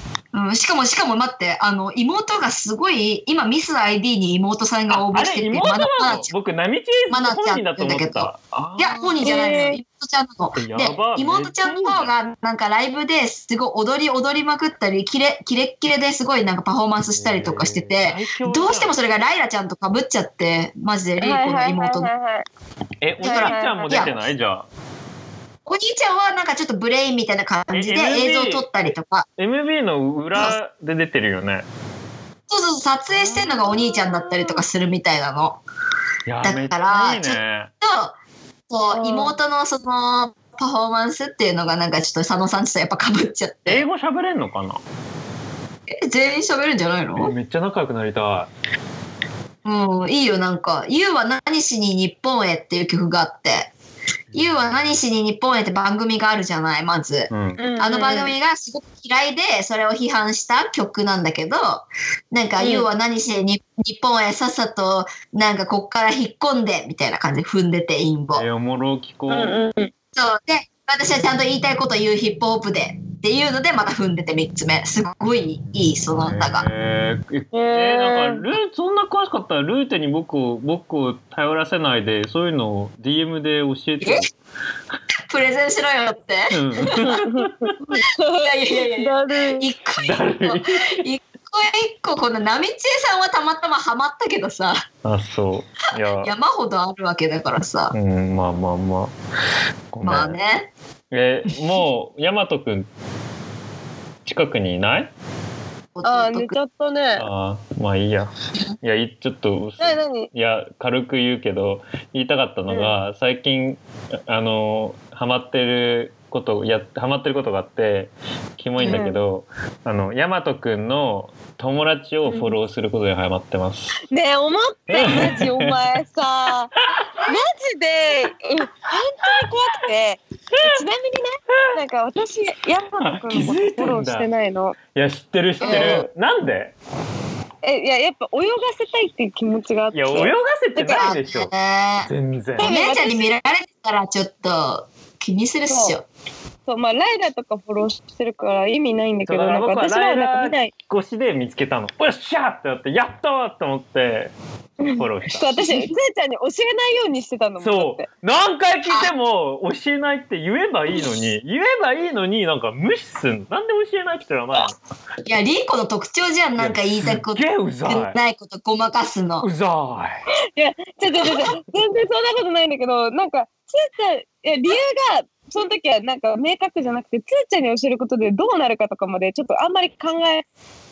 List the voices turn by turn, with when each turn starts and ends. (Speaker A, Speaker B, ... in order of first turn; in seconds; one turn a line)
Speaker A: 0.3-6.3
Speaker B: 4.9-9.3
Speaker A: 7.1-22.1
Speaker C: 9.2-9.8
Speaker B: 10.6-12.1
Speaker B: 17.1-19.0
Speaker C: 21.2-22.4
Speaker B: 23.0-24.6
Speaker C: 23.2-24.2
Speaker A: 23.2-24.1
Speaker A: 25.6-29.3
Speaker B: 27.7-28.6
Speaker B: 29.4-31.6
Speaker A: 32.5-35.6
Speaker C: 34.1-34.5
Speaker B: 36.2-37.7
Speaker A: 36.4-38.1
Speaker A: 38.7-43.8
Speaker C: 38.9-39.4
Speaker B: 43.7-44.8
Speaker A: 45.9-47.3
Speaker B: 47.1-48.5
Speaker A: 49.6-53.7
Speaker A: 54.3-68.4
Speaker B: 57.3-57.6
Speaker C: 57.6-58.3
Speaker C: 62.6-62.9
Speaker B: 68.3-69.6
Speaker C: 69.3-69.9
Speaker A: 70.1-76.7
Speaker B: 76.2-84.3
Speaker C: 77.5-78.4
Speaker A: 84.0-84.2
Speaker A: 85.3-87.0
Speaker B: 86.5-87.7
Speaker C: 86.9-89.7
Speaker A: 88.4-94.8
Speaker B: 90.0-91.0
Speaker B: 95.0-96.3
Speaker A: 96.2-97.9
Speaker B: 97.9-99.1
Speaker B: 99.9-100.4
Speaker A: 100.0-100.7
Speaker B: 101.1-102.9
Speaker B: 104.2-105.1
Speaker A: 105.9-106.5
Speaker C: 106.0-107.3
Speaker B: 107.2-108.3
Speaker B: 108.8-123.9
Speaker C: 109.8-110.3
Speaker A: 118.8-119.1
Speaker C: 118.8-119.2
Speaker C: 122.3-122.6
Speaker C: 124.1-126.7
Speaker B: 124.9-125.8
Speaker C: 127.3-134.8
Speaker B: 133.0-134.3
Speaker B: 134.9-136.7
Speaker A: 135.6-136.0
Speaker C: 135.6-136.1
Speaker C: 137.6-141.1
Speaker B: 139.9-141.5
Speaker A: 140.9-146.1
Speaker B: 142.0-142.7
Speaker C: 142.6-143.3
Speaker C: 145.7-146.0
Speaker C: 146.7-150.7
Speaker B: 149.3-155.6
Speaker C: 154.8-158.1
Speaker B: 157.6-164.8
Speaker A: 165.2-169.5
Speaker B: 166.6-168.2
Speaker B: 169.4-170.2
Speaker C: 170.5-180.4